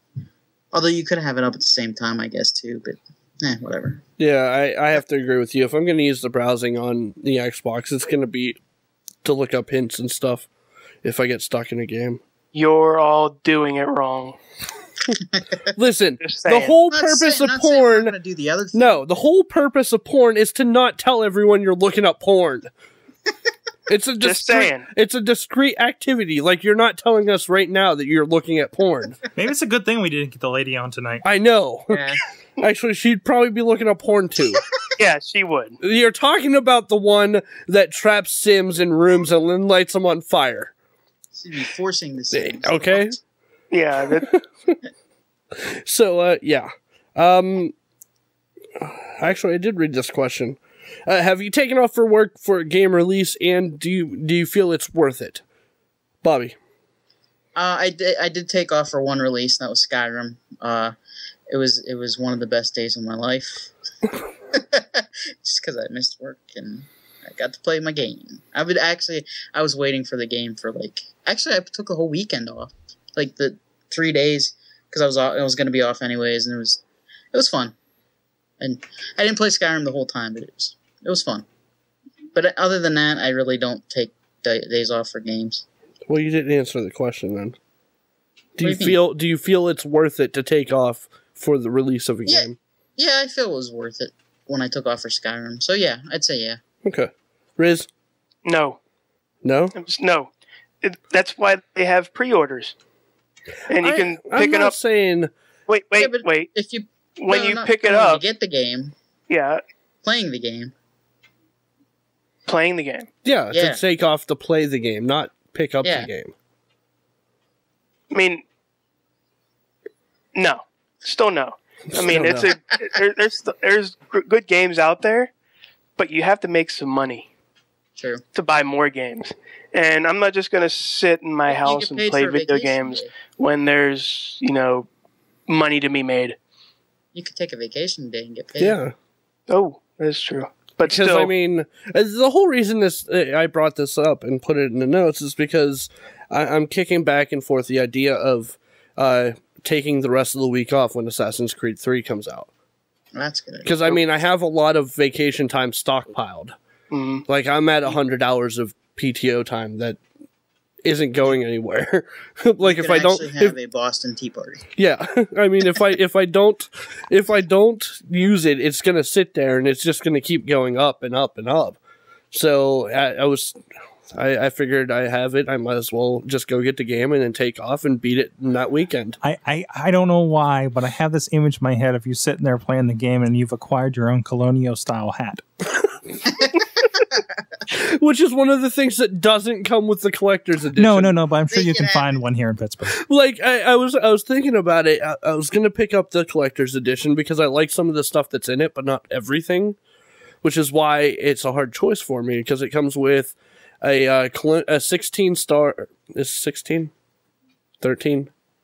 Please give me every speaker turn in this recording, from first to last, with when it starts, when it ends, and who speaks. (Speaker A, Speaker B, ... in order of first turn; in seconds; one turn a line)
Speaker A: 0.7-4.0
Speaker B: 4.2-8.6
Speaker B: 9.2-10.5
Speaker B: 11.0-12.2
Speaker C: 12.5-14.4
Speaker A: 15.1-15.5
Speaker B: 15.7-18.1
Speaker C: 16.2-16.7
Speaker A: 16.9-19.0
Speaker B: 18.7-22.7
Speaker B: 23.9-29.2
Speaker C: 24.2-24.9
Speaker D: 29.4-31.2
Speaker B: 31.2-34.6
Speaker A: 31.9-32.2
Speaker C: 35.0-35.8
Speaker B: 35.8-40.7
Speaker A: 41.3-43.2
Speaker B: 42.3-43.2
Speaker C: 43.7-44.3
Speaker B: 44.1-44.8
Speaker B: 45.5-47.7
Speaker B: 48.8-55.4
Speaker B: 56.2-56.5
Speaker A: 57.5-60.9
Speaker A: 61.5-63.7
Speaker A: 64.5-76.8
Speaker A: 77.3-77.8
Speaker A: 78.6-81.5
Speaker A: 82.3-85.6
Speaker B: 86.1-87.6
Speaker B: 88.5-92.6
Speaker A: 88.6-89.0
Speaker A: 92.3-96.6
Speaker B: 96.8-97.9
Speaker C: 98.4-98.8
Speaker B: 99.4-99.7
Speaker C: 99.7-100.3
Speaker C: 100.8-102.7
Speaker B: 103.7-105.3
Speaker C: 103.7-104.8
Speaker C: 105.7-106.5
Speaker A: 106.0-108.9
Speaker C: 107.2-108.2
Speaker C: 109.3-109.6
Speaker A: 110.0-110.7
Speaker C: 112.5-113.1
Speaker B: 113.2-116.3
Speaker A: 113.5-113.8
Speaker A: 115.8-116.1
Speaker C: 118.1-118.4
Speaker C: 120.3-125.3
Speaker B: 121.9-122.5
Speaker C: 126.0-127.3
Speaker A: 128.0-128.2
Speaker C: 128.3-134.9
Speaker A: 131.5-133.1
Speaker C: 135.5-136.4
Speaker A: 137.1-138.8
Speaker B: 138.6-138.9
Speaker C: 139.5-141.3
Speaker B: 140.8-152.5
Speaker A: 153.1-154.0
Speaker B: 153.6-156.5
Speaker C: 156.9-157.2
Speaker B: 157.3-160.0
Speaker B: 160.8-163.6
Speaker A: 162.6-164.6
Speaker B: 164.8-171.8
Speaker B: 172.3-179.2
Speaker D: 179.2-185.4
Speaker A: 186.3-187.2
Speaker B: 187.7-191.2
Speaker D: 190.7-193.0
Speaker A: 191.5-192.2
Speaker B: 192.8-199.8
Speaker B: 200.4-206.9
Speaker B: 207.8-208.3